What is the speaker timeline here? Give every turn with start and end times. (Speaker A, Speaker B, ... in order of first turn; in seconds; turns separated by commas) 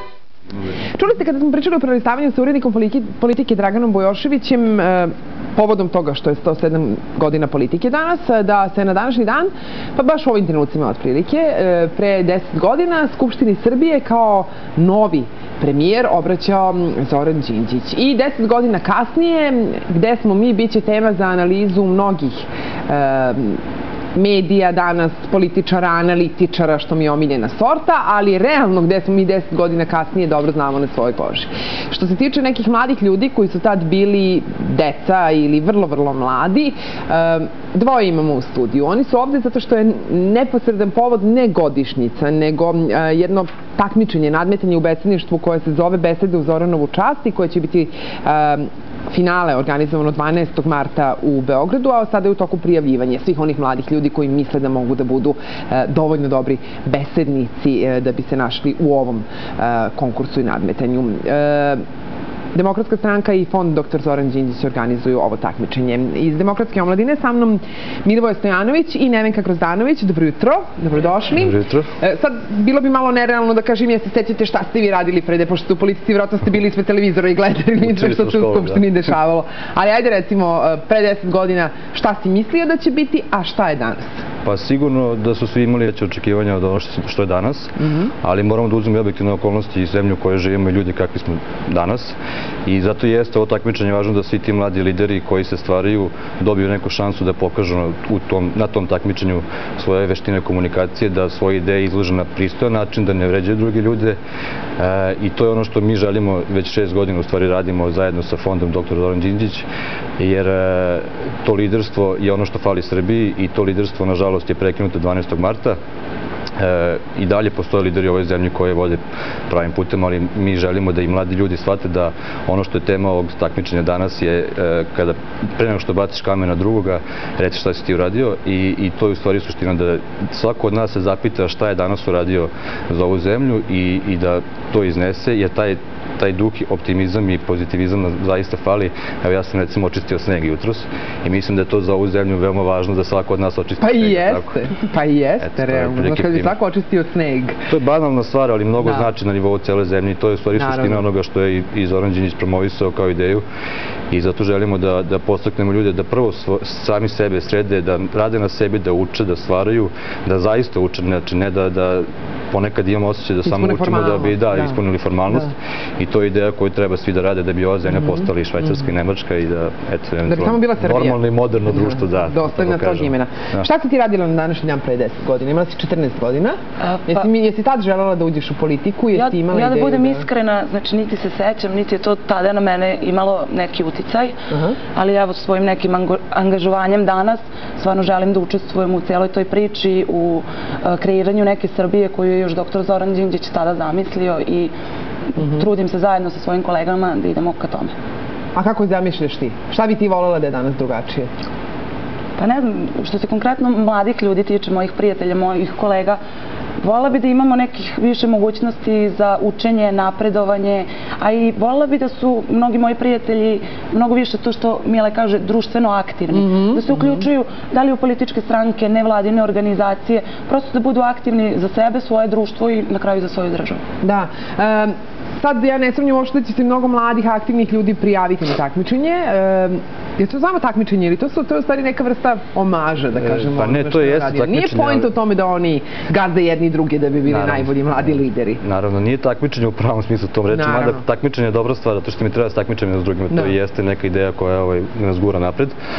Speaker A: 0.9-23.6, Speaker A: 24.1-61.8, Speaker A: 62.5-84.2, Speaker B: 71.3-71.9, Speaker B: 77.8-78.9, Speaker B: 84.4-104.2, Speaker A: 87.8-88.1, Speaker B: 104.8-109.7, Speaker B: 110.2-115.8, Speaker B: 116.6-144.6, Speaker A: 143.8-147.6, Speaker B: 145.4-146.6, Speaker B: 147.7-153.4, Speaker A: 148.8-149.1, Speaker A: 150.5-151.0, Speaker B: 154.1-173.7, Speaker A: 163.4-164.8, Speaker A: 170.2-180.3, Speaker C: 176.8-177.2, Speaker C: 179.1-184.3, Speaker A: 184.5-184.8, Speaker C: 184.9-194.7, Speaker C: 195.3-197.9, Speaker A: 195.4-195.6, Speaker A: 198.5-201.3, Speaker C: 202.4-206.2, Speaker C: 206.8-223.8, Speaker A: 216.3-217.2, Speaker A: 224.0-238.6, Speaker B: 233.2-235.1, Speaker B: 237.2-238.1, Speaker B: 238.6-245.8, Speaker A: 240.5-241.0, Speaker A: 243.3-243.6